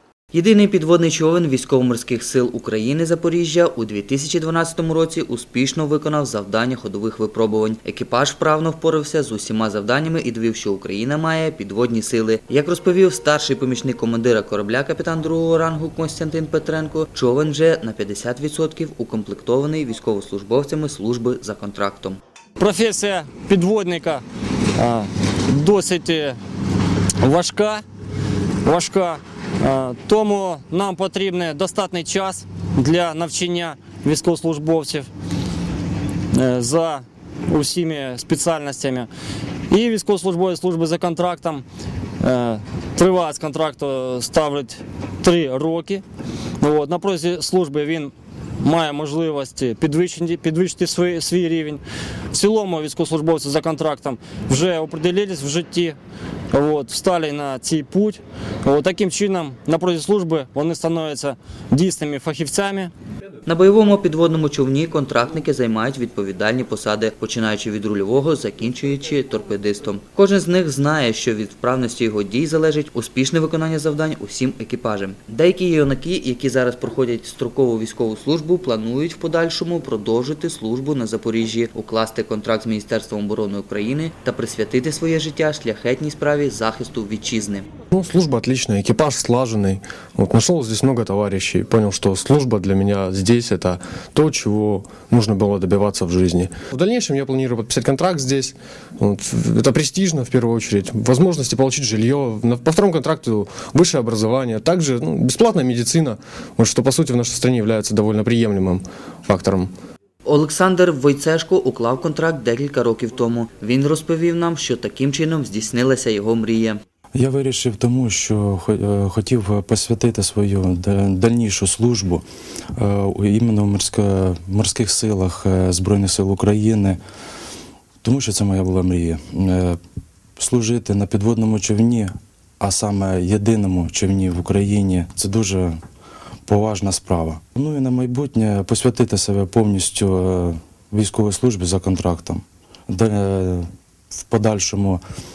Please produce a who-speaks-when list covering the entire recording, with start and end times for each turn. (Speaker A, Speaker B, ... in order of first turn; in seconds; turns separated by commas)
Speaker A: 0.3-22.2, Speaker B: 22.6-24.2, Speaker B: 24.8-26.4, Speaker B: 27.2-27.8, Speaker B: 28.6-35.1, Speaker B: 36.3-39.1, Speaker B: 39.7-41.6, Speaker B: 42.2-46.0, Speaker B: 46.6-51.8, Speaker B: 52.3-56.0, Speaker B: 56.5-62.9, Speaker A: 63.5-87.7, Speaker C: 87.9-109.7, Speaker A: 110.2-116.8, Speaker D: 117.1-122.2, Speaker D: 122.8-127.0, Speaker D: 128.0-129.8, Speaker D: 130.4-135.8, Speaker D: 136.5-143.7, Speaker D: 144.3-145.0